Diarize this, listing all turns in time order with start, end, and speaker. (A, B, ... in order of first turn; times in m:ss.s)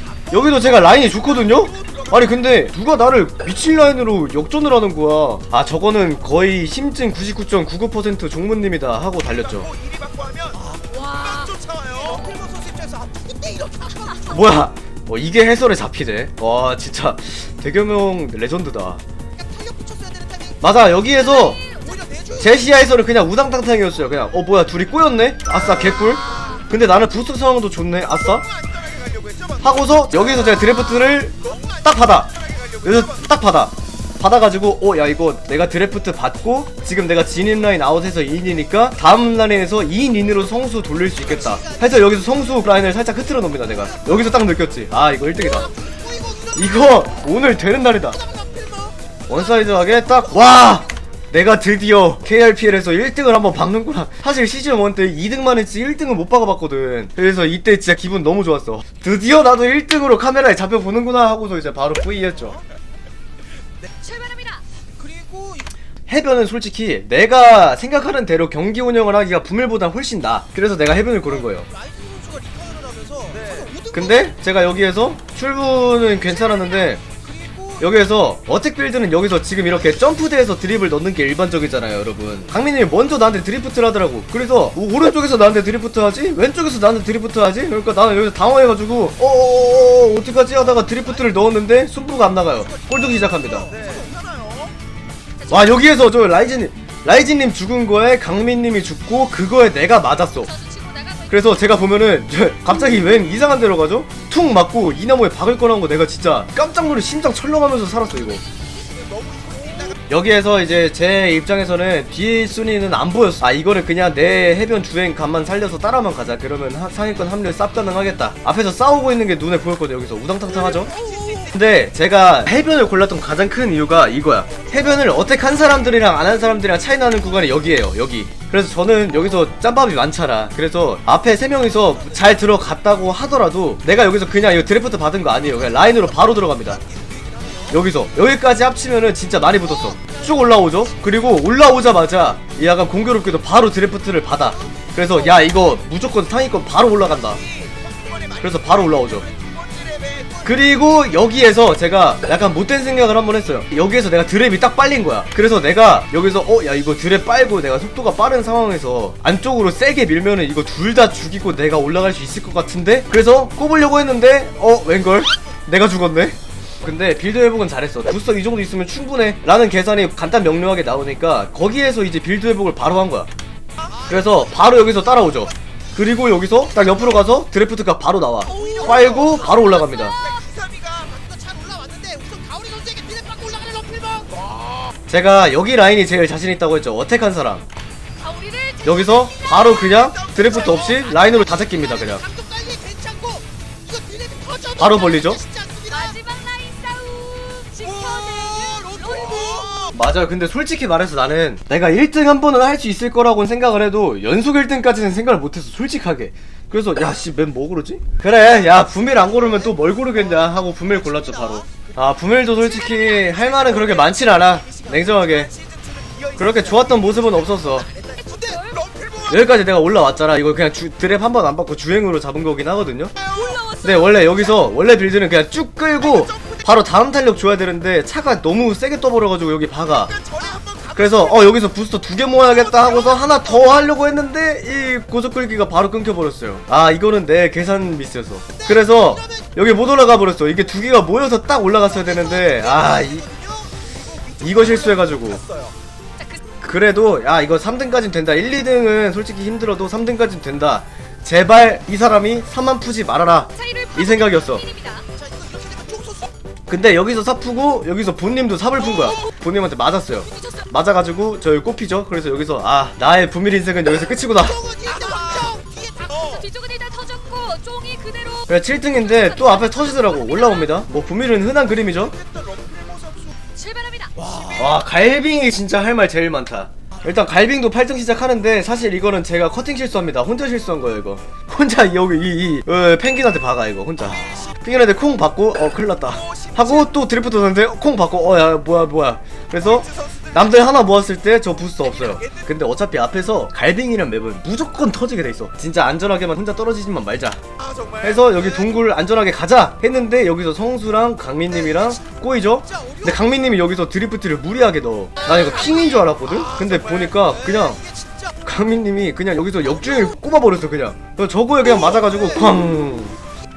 0:00.3-0:09.7 A
0:09.8-0:14.1 B
0:10.8-0:11.5 C
0:14.3-0:19.0 A
0:19.6-0:20.4 B
0:20.6-0:21.6 A
0:21.6-0:22.0 C
0:21.7-0:22.3 B
0:22.4-0:28.4 A
0:28.8-0:29.5 B
0:29.6-0:45.7 A
0:46.5-0:48.2 A
0:48.5-0:48.9 B
0:49.3-1:02.6 A
1:04.0-1:04.6 C
1:05.0-1:05.6 B
1:06.1-1:11.7 A
1:11.9-1:13.9 B
1:13.8-1:17.0 A
1:17.8-1:33.8 A
1:33.7-1:34.7 B
1:35.4-1:35.7 C
1:35.5-1:40.5 A
1:40.5-1:41.5 C
1:41.3-1:48.4 A
1:48.9-1:49.9 B
1:50.0-2:16.8 A
2:17.7-2:27.4 A
2:28.3-2:29.3 A
2:29.7-2:30.3 B
2:30.4-2:53.3 A
2:54.1-3:00.2 A
3:00.4-3:04.6 B
3:05.1-3:07.6 A
3:08.2-3:08.8 C
3:08.8-3:12.2 A
3:12.2-3:14.7 B
3:14.8-3:15.4 A
3:15.4-3:16.0 B
3:15.9-3:19.6 C
3:18.3-3:19.7 B
3:19.9-3:35.5 A
3:36.4-3:37.9 A
3:38.0-3:39.1 B
3:38.2-3:38.9 C
3:39.2-3:43.1 A
3:43.3-3:43.9 C
3:43.8-3:50.1 A
3:50.9-4:03.3 A
4:04.4-4:05.4 A
4:06.2-4:06.4 C
4:06.6-4:14.7 A
4:13.6-4:15.0 C
4:15.2-4:16.3 B
4:16.7-4:24.7 A
4:24.8-4:26.2 B
4:26.0-4:28.5 C
4:28.5-4:32.2 A
4:32.4-4:33.2 B
4:33.5-4:34.2 C
4:34.2-4:57.4 A
4:58.0-5:07.8 A
5:08.4-5:13.2 A